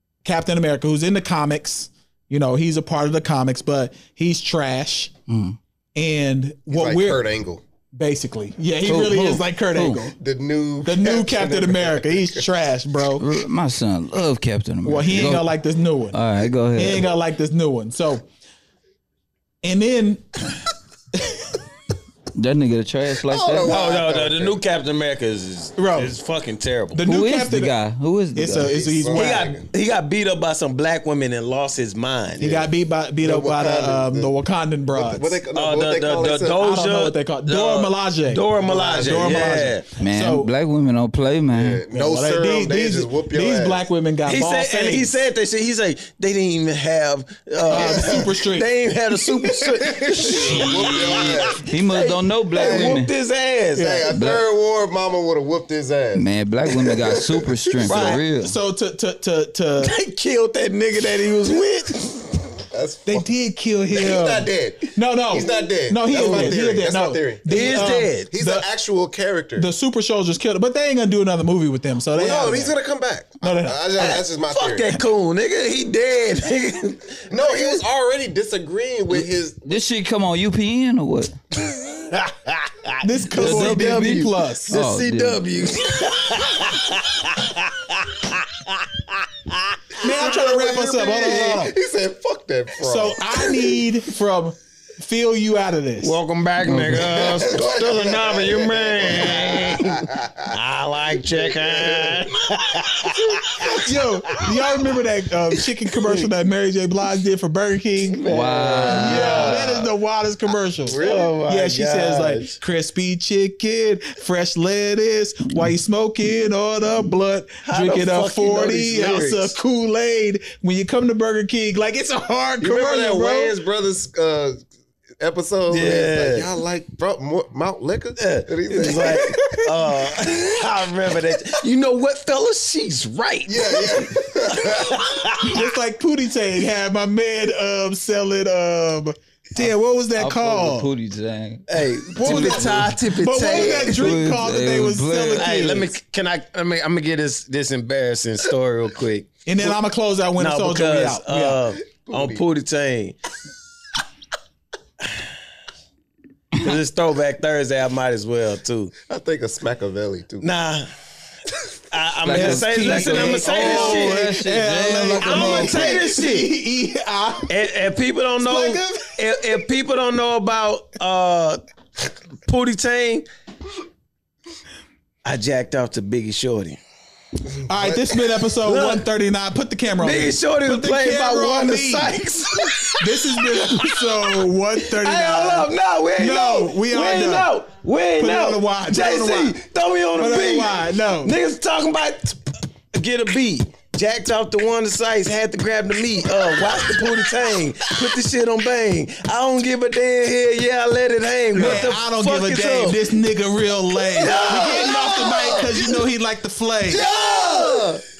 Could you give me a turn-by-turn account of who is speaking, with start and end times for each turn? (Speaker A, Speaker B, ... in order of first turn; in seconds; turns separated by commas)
Speaker A: 0.2-5.1, Speaker B: 5.3-5.6, Speaker A: 5.9-7.2, Speaker C: 6.7-7.6, Speaker A: 7.9-10.2, Speaker B: 8.8-10.0, Speaker C: 10.2-12.5, Speaker A: 10.8-13.2, Speaker B: 13.2-15.5, Speaker A: 14.8-16.2, Speaker B: 16.1-17.1, Speaker A: 16.7-18.3, Speaker A: 19.6-20.4, Speaker B: 22.3-23.7, Speaker C: 23.2-24.6, Speaker D: 23.6-27.0, Speaker A: 25.8-26.1, Speaker A: 26.9-27.7, Speaker B: 27.0-28.8, Speaker A: 28.3-29.5, Speaker C: 28.5-29.7, Speaker D: 29.1-32.7, Speaker A: 32.4-35.4, Speaker C: 33.2-34.3, Speaker C: 34.9-36.6, Speaker D: 35.5-39.9, Speaker A: 36.6-40.5, Speaker C: 38.6-39.3, Speaker B: 40.0-41.8, Speaker C: 41.5-43.9, Speaker A: 41.9-45.1, Speaker D: 44.2-54.0, Speaker A: 47.7-48.7, Speaker C: 47.7-48.3, Speaker C: 49.5-51.6, Speaker B: 50.5-53.1, Speaker C: 52.5-53.1, Speaker C: 53.7-58.2, Speaker A: 53.8-54.0, Speaker B: 54.1-54.4, Speaker B: 56.1-58.5, Speaker D: 57.9-58.2, Speaker A: 58.4-59.9, Speaker D: 59.8-62.3, Speaker C: 62.7-63.3, Speaker A: 63.0-68.7, Speaker C: 63.9-69.7, Speaker D: 66.1-66.5, Speaker D: 67.5-68.3, Speaker A: 69.6-72.7, Speaker C: 72.1-75.0, Speaker A: 73.4-73.8, Speaker D: 74.0-77.8, Speaker C: 77.3-79.8, Speaker B: 79.1-81.3, Speaker D: 81.7-89.0, Speaker A: 83.0-84.7, Speaker B: 83.3-85.4, Speaker D: 89.5-90.5, Speaker A: 90.0-91.7, Speaker C: 90.0-93.8, Speaker D: 91.0-91.3, Speaker A: 92.8-96.2, Speaker D: 96.0-103.8, Speaker B: 96.6-97.1, Speaker C: 96.9-100.5, Speaker C: 101.3-102.3, Speaker A: 103.6-108.2, Speaker D: 108.1-109.9, Speaker B: 108.3-109.7, Speaker A: 108.9-123.5, Speaker D: 110.9-112.6, Speaker D: 117.6-119.5, Speaker C: 122.6-124.7, Speaker C: 125.2-129.5, Speaker D: 125.7-126.5, Speaker D: 128.2-135.5, Speaker C: 133.5-135.1, Speaker A: 135.4-140.9, Speaker B: 139.6-142.9, Speaker D: 141.7-144.2, Speaker A: 142.1-145.8, Speaker B: 143.4-145.9, Speaker D: 145.4-149.8, Speaker A: 149.4-151.6, Speaker D: 150.4-153.2, Speaker C: 151.9-152.4, Speaker D: 156.6-158.9, Speaker C: 159.0-160.5, Speaker D: 160.4-160.9, Speaker D: 161.9-164.2, Speaker B: 162.2-166.0, Speaker A: 162.3-167.7, Speaker D: 165.2-166.5, Speaker D: 167.5-171.6, Speaker A: 168.4-169.2, Speaker D: 172.5-173.2, Speaker D: 175.2-176.8, Speaker A: 177.7-182.2, Speaker D: 178.6-179.0, Speaker D: 180.0-184.4, Speaker A: 183.0-187.5, Speaker D: 185.0-203.1, Speaker A: 188.2-189.6, Speaker A: 190.2-191.3, Speaker A: 201.5-207.0, Speaker D: 204.1-205.7, Speaker C: 204.5-205.7, Speaker D: 206.9-208.0, Speaker C: 206.9-208.0